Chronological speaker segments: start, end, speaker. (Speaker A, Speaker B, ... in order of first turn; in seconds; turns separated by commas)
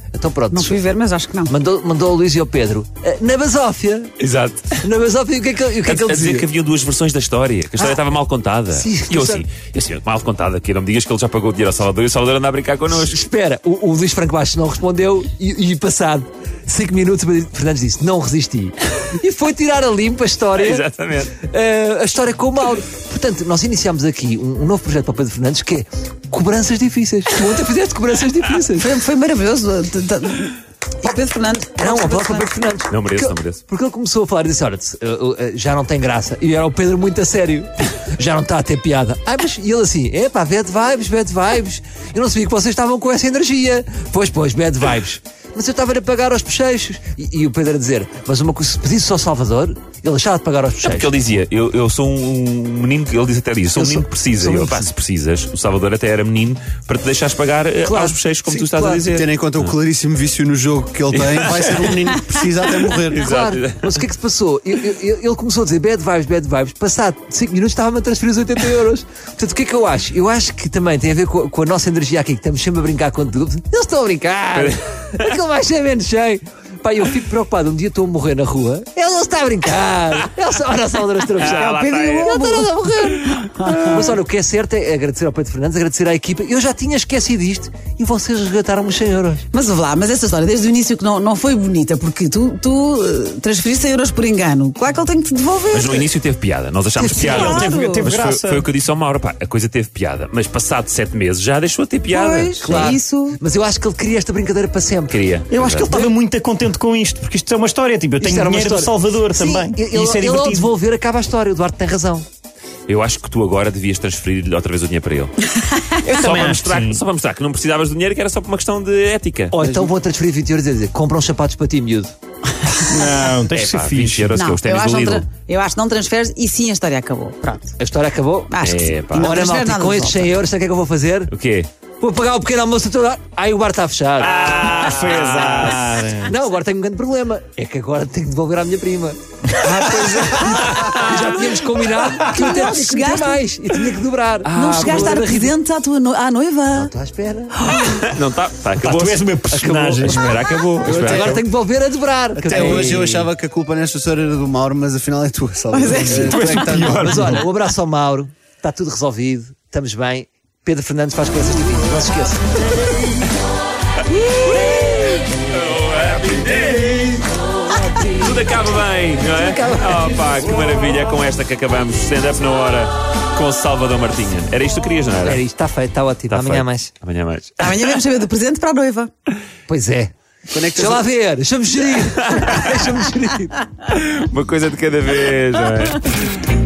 Speaker A: 0.1-0.9, Speaker B: 0.5-1.5, Speaker A: 1.5-4.1, Speaker C: 4.2-4.9, Speaker A: 4.8-6.5, Speaker C: 5.8-13.2, Speaker A: 8.7-9.4, Speaker A: 12.9-20.8, Speaker C: 20.6-21.4, Speaker A: 21.4-29.0, Speaker B: 28.8-32.5, Speaker A: 31.7-51.1, Speaker C: 32.9-33.6, Speaker C: 50.8-59.8, Speaker A: 53.8-54.9, Speaker A: 57.8-59.1, Speaker D: 59.1-63.3, Speaker C: 61.1-62.0, Speaker C: 63.0-64.0, Speaker A: 63.1-89.5, Speaker C: 74.5-75.3, Speaker C: 81.4-82.4, Speaker B: 82.3-82.7, Speaker C: 83.2-83.8, Speaker B: 83.6-84.0, Speaker B: 89.5-96.1, Speaker C: 95.7-103.0, Speaker B: 97.0-98.1, Speaker E: 97.0-98.7, Speaker B: 102.1-103.4, Speaker A: 102.6-105.2, Speaker C: 105.1-105.9, Speaker E: 105.5-110.7, Speaker A: 105.9-106.1, Speaker A: 108.2-112.3, Speaker C: 112.9-115.3, Speaker B: 115.6-116.5, Speaker E: 116.1-117.0, Speaker C: 116.1-119.5, Speaker A: 119.5-122.1, Speaker D: 119.6-119.9, Speaker B: 122.9-123.2, Speaker E: 122.9-124.4, Speaker C: 123.5-125.3, Speaker B: 124.3-127.8, Speaker A: 127.8-128.6, Speaker B: 128.5-130.3, Speaker C: 128.6-129.3, Speaker A: 129.1-131.3, Speaker C: 131.3-131.7, Speaker A: 132.0-134.6, Speaker C: 134.2-136.0, Speaker E: 134.3-136.3, Speaker A: 136.2-145.5, Speaker E: 139.6-140.4, Speaker C: 139.8-141.5, Speaker B: 142.3-143.4, Speaker C: 144.4-145.1, Speaker B: 144.5-146.9, Speaker A: 146.7-147.7, Speaker B: 147.6-147.9, Speaker C: 148.0-149.3, Speaker E: 148.8-151.4, Speaker A: 149.5-153.0, Speaker C: 150.0-151.4, Speaker D: 150.9-151.3, Speaker D: 152.4-157.4, Speaker E: 152.5-153.2, Speaker B: 155.7-156.7, Speaker E: 156.1-157.4, Speaker A: 156.9-162.7, Speaker C: 164.1-167.3, Speaker A: 167.6-168.4, Speaker C: 168.2-175.4, Speaker A: 169.3-170.2, Speaker A: 175.2-176.9, Speaker C: 176.3-177.7, Speaker B: 177.6-179.1, Speaker A: 179.7-180.1, Speaker D: 180.5-181.1, Speaker A: 180.7-183.6, Speaker C: 182.0-182.6, Speaker C: 183.8-186.4